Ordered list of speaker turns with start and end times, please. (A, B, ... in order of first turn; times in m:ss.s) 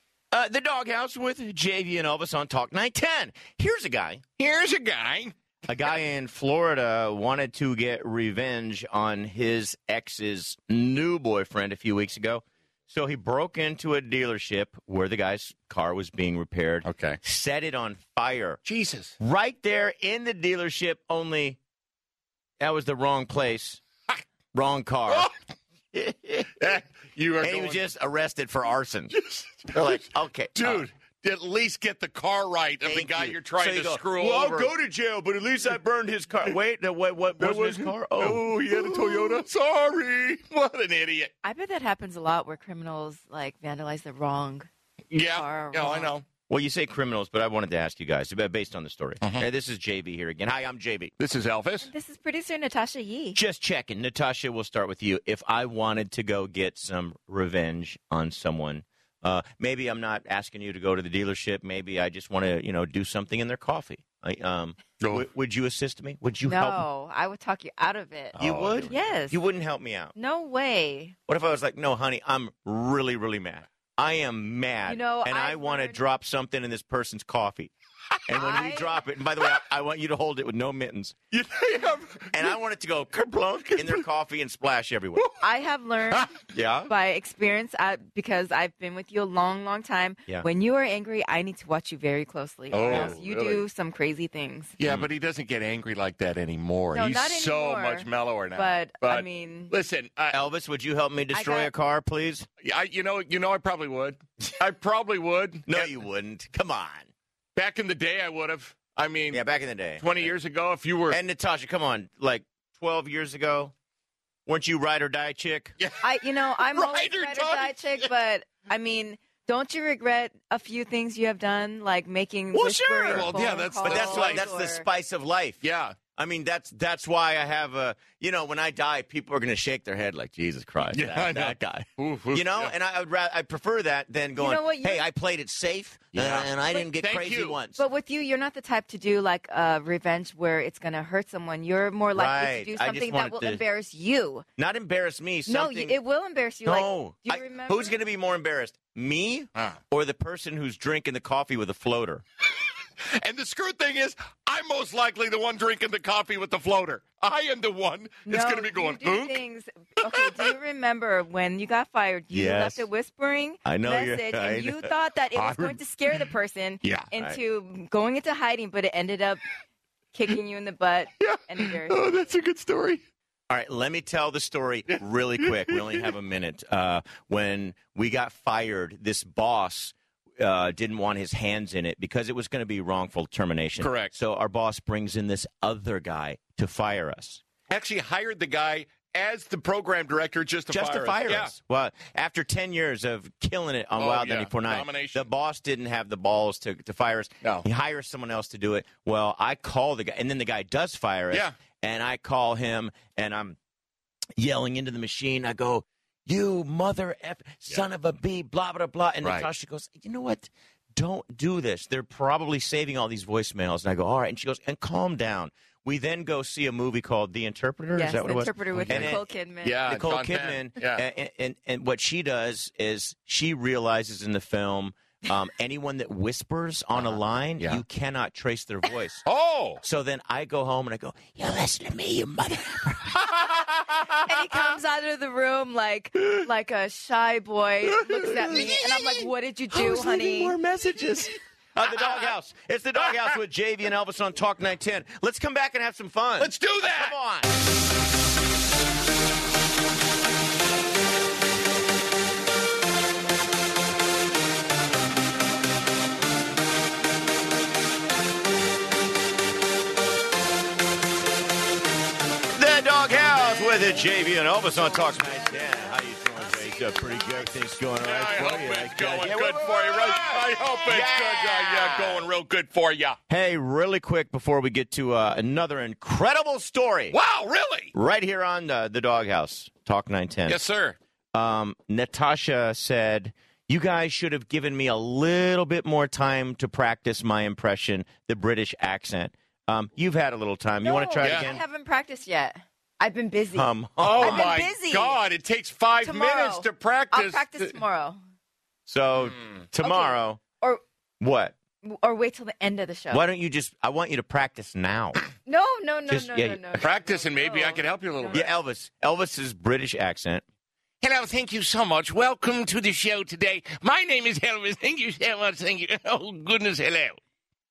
0:00.3-0:04.2 A
0:04.4-0:05.3 B
0:05.7-0:18.6 A
0:16.8-0:17.2 B
0:18.6-0:19.1 B
0:19.2-0:21.6 A
0:22.6-0:23.8 A
0:24.5-0:25.3 A
0:25.1-0:25.3 B
0:25.9-0:26.8 A
0:26.6-0:27.8 B
0:27.4-0:29.2 A
0:29.1-0:34.7 B
0:29.7-0:30.9 A
0:32.8-0:39.4 A
0:37.4-0:41.3 B
0:41.4-0:44.7 C
0:45.1-0:46.2 B
0:45.3-0:46.1 C
0:46.5-0:51.1 A
0:49.2-0:49.5 B
0:51.2-0:51.9 B
0:51.8-0:53.4 C
0:53.3-1:06.8 A
1:05.0-1:05.2 B
1:06.4-1:09.4 C
1:08.3-1:08.9 B
1:08.4-1:10.1 A
1:10.1-1:11.1 C
1:11.3-1:17.7 A
1:14.9-1:16.0 C
1:18.3-1:21.2 A
1:18.3-1:18.9 C
1:21.3-1:22.6 B
1:22.3-1:25.3 A
1:23.7-1:24.0 B
1:25.4-1:34.7 C
1:26.1-1:26.4 B
1:26.5-1:26.9 A
1:32.7-1:33.6 B
1:32.8-1:33.2 A
1:34.8-1:40.4 B
1:34.8-1:35.1 A
1:36.9-1:39.7 C
1:40.3-1:42.5 A
1:41.3-1:41.7 C
1:42.6-1:45.9 B
1:45.7-1:47.1 A
1:47.6-1:49.4 B
1:49.3-1:50.3 A
1:50.0-1:51.2 B
1:51.1-1:53.7 A
1:54.4-1:55.7 A
1:55.8-1:58.1 B
1:56.0-2:04.8 C
2:02.5-2:05.6 A
2:03.0-2:04.5 B
2:05.6-2:06.0 B
2:06.1-2:17.8 A
2:10.9-2:12.7 B
2:14.4-2:15.0 C
2:16.1-2:17.6 B
2:17.8-2:24.4 C
2:22.1-2:23.6 A
2:24.6-2:26.0 A
2:25.5-2:28.0 C
2:26.6-2:32.2 A
2:29.6-2:29.8 B
2:33.1-2:39.4 B
2:38.2-2:49.4 C
2:40.0-2:40.5 B
2:42.3-2:42.9 A
2:43.6-2:44.8 A
2:45.4-2:46.3 B
2:46.8-2:47.1 B
2:50.1-2:52.0 C
2:51.2-2:53.0 B
2:53.5-3:07.4 A
2:54.9-2:56.1 B
3:03.8-3:04.1 B
3:07.7-3:11.5 B
3:10.7-3:23.6 A
3:14.0-3:15.3 B
3:24.4-3:39.2 A
3:29.2-3:29.5 B
3:37.9-3:39.8 C
3:38.8-3:41.0 B
3:39.9-3:49.2 A
3:47.0-3:47.8 B
3:49.2-3:49.8 B
3:49.8-3:53.3 A
3:53.1-3:54.2 B
3:54.2-4:00.6 C
3:58.0-3:58.8 A
3:58.0-3:59.1 B
3:59.7-4:07.5 A
4:01.9-4:02.3 B
4:03.0-4:03.3 B
4:06.4-4:07.2 B
4:22.5-4:32.3 A
4:24.9-4:25.9 C
4:26.7-4:27.0 C
4:28.0-4:33.2 B
4:33.3-4:37.2 A
4:37.1-4:37.9 B
4:37.9-4:40.6 A
4:40.5-4:41.0 B
4:41.3-4:51.6 A
4:50.8-4:55.2 C
4:51.2-4:51.5 B
4:53.5-4:54.6 A
4:54.0-4:57.8 B
4:56.0-4:58.2 C
4:58.8-5:00.4 A
4:59.8-5:00.8 C
5:01.2-5:01.5 A
5:01.8-5:03.2 C
5:03.1-5:05.2 A
5:05.4-5:08.4 C
5:06.1-5:06.8 A
5:06.7-5:08.5 B
5:08.3-5:10.4 A
5:11.0-5:17.2 B